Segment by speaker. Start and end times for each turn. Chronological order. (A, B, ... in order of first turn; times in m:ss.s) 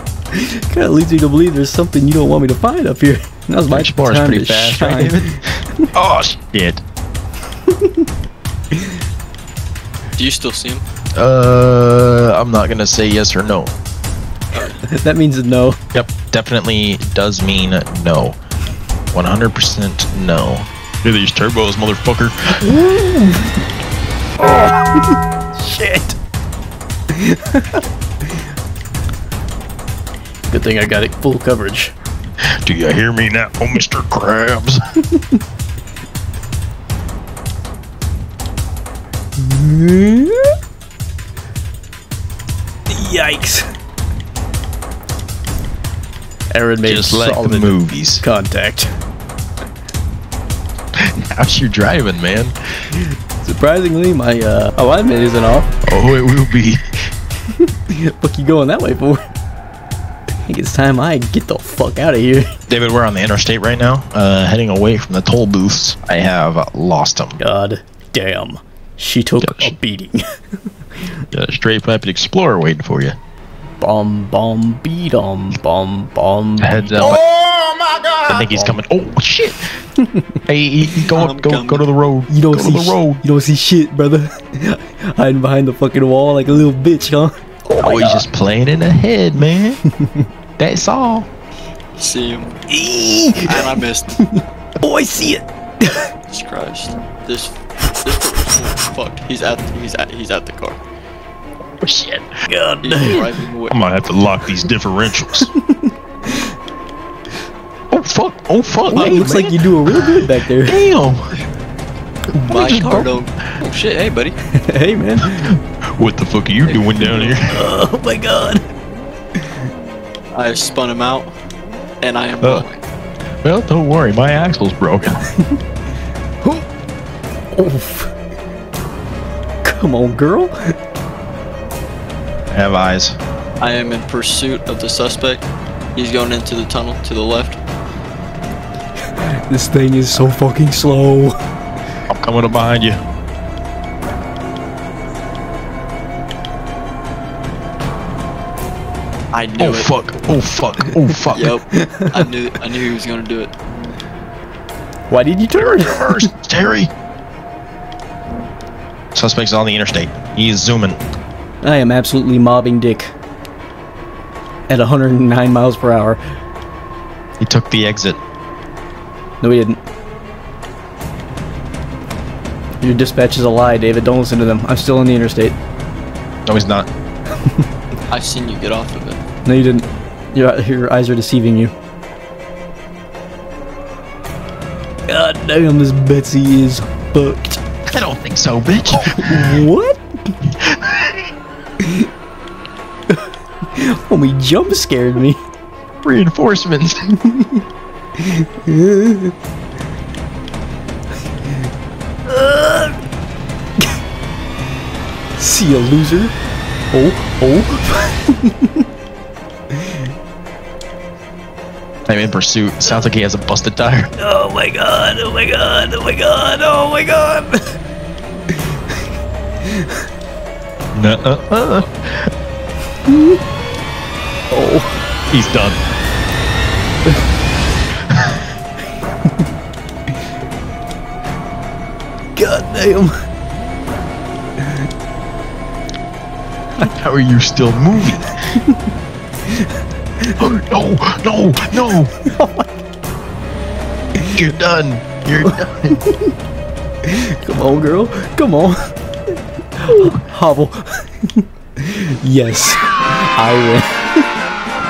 0:00.3-0:05.9 A
0:03.7-0:05.4 B
0:05.9-0:06.8 B
0:07.7-0:08.0 A
0:10.2-0:10.8 C
0:11.1-0:13.7 B
0:14.5-0:14.8 C
0:14.8-0:15.8 A
0:15.9-0:18.4 B
0:19.1-0:22.6 B
0:22.6-0:23.6 A
0:24.4-0:26.2 A
0:27.1-0:27.8 A
0:30.5-0:31.9 A
0:32.6-0:34.8 B
0:39.4-0:40.5 A
0:42.9-0:43.7 A
0:46.5-0:48.9 A
0:46.8-0:48.2 B
0:51.0-0:52.6 B
0:53.4-0:55.7 A
0:55.8-0:56.8 B
0:57.9-0:59.2 A
1:00.5-1:02.5 A
1:02.7-1:07.4 B
1:07.4-1:10.2 A
1:09.4-1:09.7 B
1:11.3-1:13.2 B
1:13.8-1:17.2 A
1:16.6-1:17.2 B
1:17.8-1:18.7 A
1:18.2-1:19.7 B
1:20.5-1:23.2 B
1:21.0-1:21.9 C
1:22.3-1:28.2 A
1:27.8-1:29.8 B
1:30.6-1:31.3 B
1:32.0-1:32.6 C
1:32.7-1:36.1 A
1:33.4-1:34.2 C
1:36.3-1:40.8 C
1:41.8-1:42.4 B
1:42.5-1:43.3 A
1:42.8-1:43.8 C
1:43.7-1:45.5 B
1:45.6-1:46.5 A
1:47.9-1:51.3 B
1:48.9-1:50.8 A
1:52.4-1:52.6 A
1:52.4-1:54.4 C
1:52.5-1:53.1 B
1:54.5-1:55.5 A
1:55.2-1:57.6 B
1:56.6-1:57.1 C
1:57.2-1:58.6 A
2:00.3-2:01.3 C
2:02.0-2:02.8 C
2:02.4-2:02.6 B
2:03.4-2:05.3 B
2:07.5-2:08.1 A
2:09.6-2:10.5 A
2:12.5-2:13.2 B
2:13.6-2:17.6 C
2:19.2-2:21.3 A
2:22.1-2:23.0 B
2:29.3-2:29.9 C
2:29.6-2:31.6 B
2:31.3-2:33.5 C
2:31.8-2:32.1 A
2:35.1-2:36.3 A
2:35.5-2:36.9 B
2:39.1-2:41.0 B
2:41.6-2:43.1 A
2:44.7-2:46.2 A
2:47.4-2:48.2 B
2:49.4-2:49.8 A
2:52.8-2:55.6 A
2:56.4-2:56.9 B
2:58.1-2:59.2 C
2:59.4-3:01.7 A
3:05.1-3:07.6 A
3:07.9-3:09.6 B
3:08.9-3:10.3 A
3:10.5-3:11.3 B
3:11.8-3:12.1 A
3:13.1-3:15.4 A
3:16.0-3:17.1 B
3:17.1-3:17.6 A
3:18.2-3:19.3 A
3:22.2-3:23.0 A
3:25.4-3:26.3 A
3:26.9-3:28.8 A
3:29.7-3:30.1 A
3:32.1-3:34.1 B
3:34.1-3:37.8 A
3:38.5-3:38.8 A
3:39.6-3:40.0 A
3:40.9-3:42.3 B
3:43.0-3:43.4 A
3:44.5-3:45.0 A
3:45.3-3:45.8 B
3:52.3-3:53.1 A
3:56.8-3:58.4 B
4:00.3-4:02.1 B
4:02.2-4:02.7 A
4:04.3-4:06.0 B
4:05.4-4:06.3 A
4:07.0-4:08.9 A
4:09.7-4:14.2 A
4:09.9-4:10.2 B